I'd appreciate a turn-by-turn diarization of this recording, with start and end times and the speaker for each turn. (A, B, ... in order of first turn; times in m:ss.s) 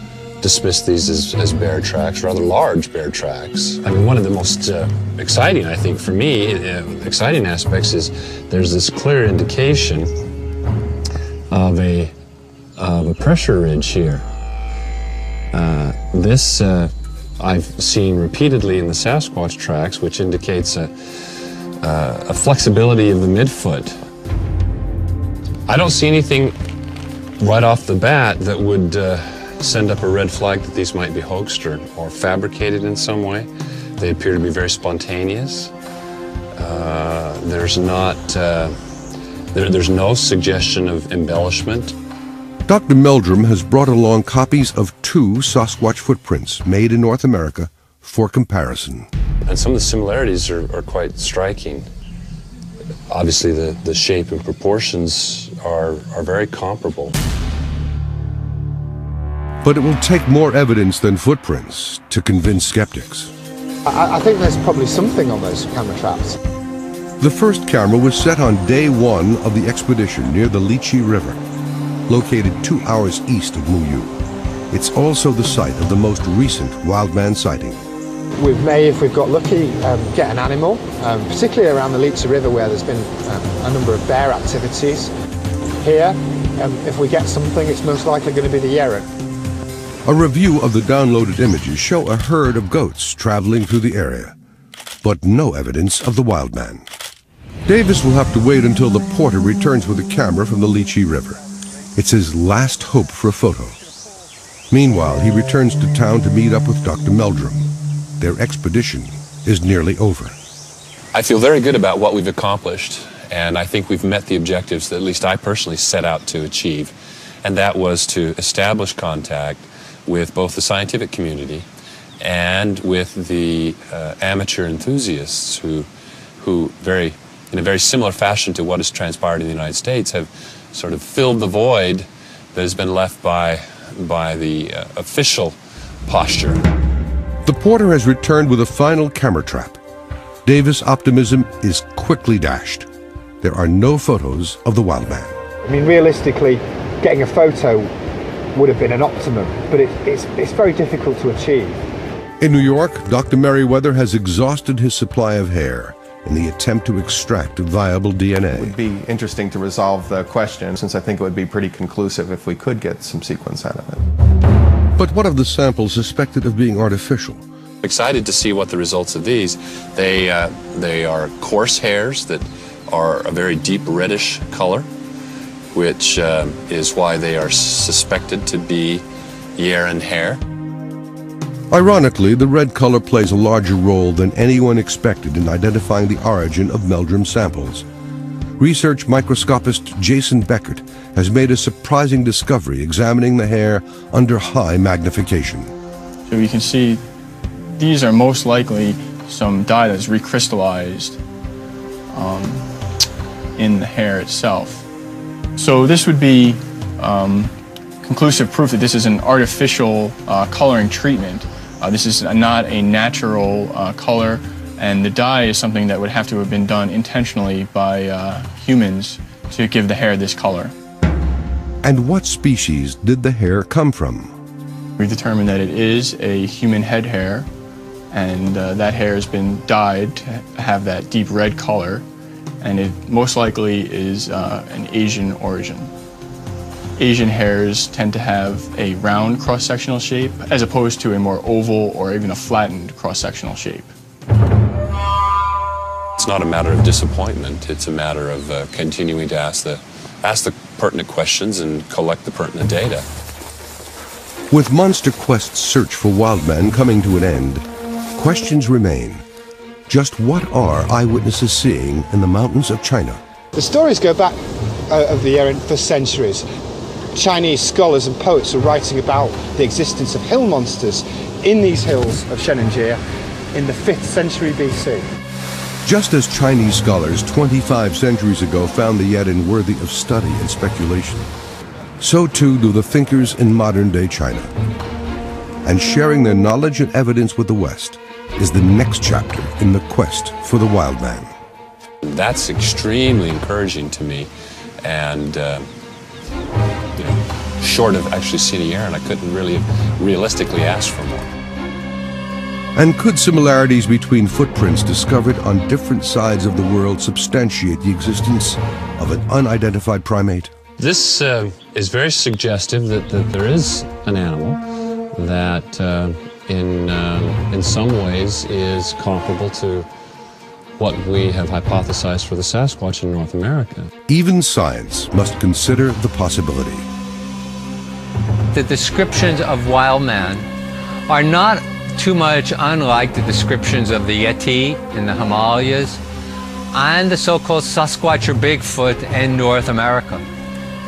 0:00.4-0:10.1 A
0:11.5-0:12.1 A
0:12.8-0:14.2 A
0:15.5-0:24.0 A
0:25.7-0:26.6 A
0:27.4-0:35.7 A
0:36.5-0:38.8 A
0:39.5-0:41.9 A
0:42.6-0:49.1 B
0:49.4-0:51.9 A
0:53.1-0:57.2 A
0:59.6-1:03.3 B
1:03.8-1:06.4 C
1:07.2-1:11.4 B
1:12.1-1:14.2 B
1:14.7-1:17.8 B
1:18.4-1:25.1 C
1:25.8-1:29.1 C
1:30.0-1:34.3 B
1:35.0-1:36.8 B
1:37.6-1:41.4 B
1:41.9-1:43.8 B
1:44.7-1:47.7 B
1:48.2-1:50.4 B
1:51.1-2:01.6 A
2:02.2-2:05.9 A
2:06.4-2:16.6 A
2:17.4-2:19.8 B
2:20.4-2:22.9 B
2:23.4-2:25.4 B
2:25.6-2:27.9 C
2:28.5-2:31.8 C
2:32.4-2:38.8 B
2:38.5-2:44.0 D
2:45.0-2:47.4 B
2:47.8-2:54.9 A
2:55.7-2:59.0 A
2:59.6-3:00.4 A
3:01.7-3:07.8 B
3:08.6-3:15.7 B
3:16.3-3:17.0 E
3:17.6-3:21.2 E
3:22.1-3:22.7 E
3:23.6-3:24.8 E
3:25.6-3:40.7 E
3:41.8-3:44.3 B
3:45.0-3:47.5 E
3:48.1-3:52.0 E
3:52.6-3:55.9 E
3:57.0-4:03.9 E
4:06.2-4:13.0 A
4:14.5-4:17.6 B
4:18.1-4:19.2 B
4:19.9-4:23.2 B
4:23.5-4:26.4 C
4:27.1-4:33.0 C
4:33.5-4:35.1 C
4:35.8-4:41.3 B
4:42.0-4:44.5 B
4:45.6-4:51.3 B
4:52.0-4:54.3 A
4:54.8-4:55.7 A
4:56.9-5:01.3 A
5:02.8-5:10.5 B
5:10.8-5:14.6 A
5:15.1-5:19.9 A
5:20.8-5:23.9 A
5:24.1-5:26.9 B
5:28.5-5:30.5 F
5:31.1-5:36.0 F
5:36.7-5:40.2 F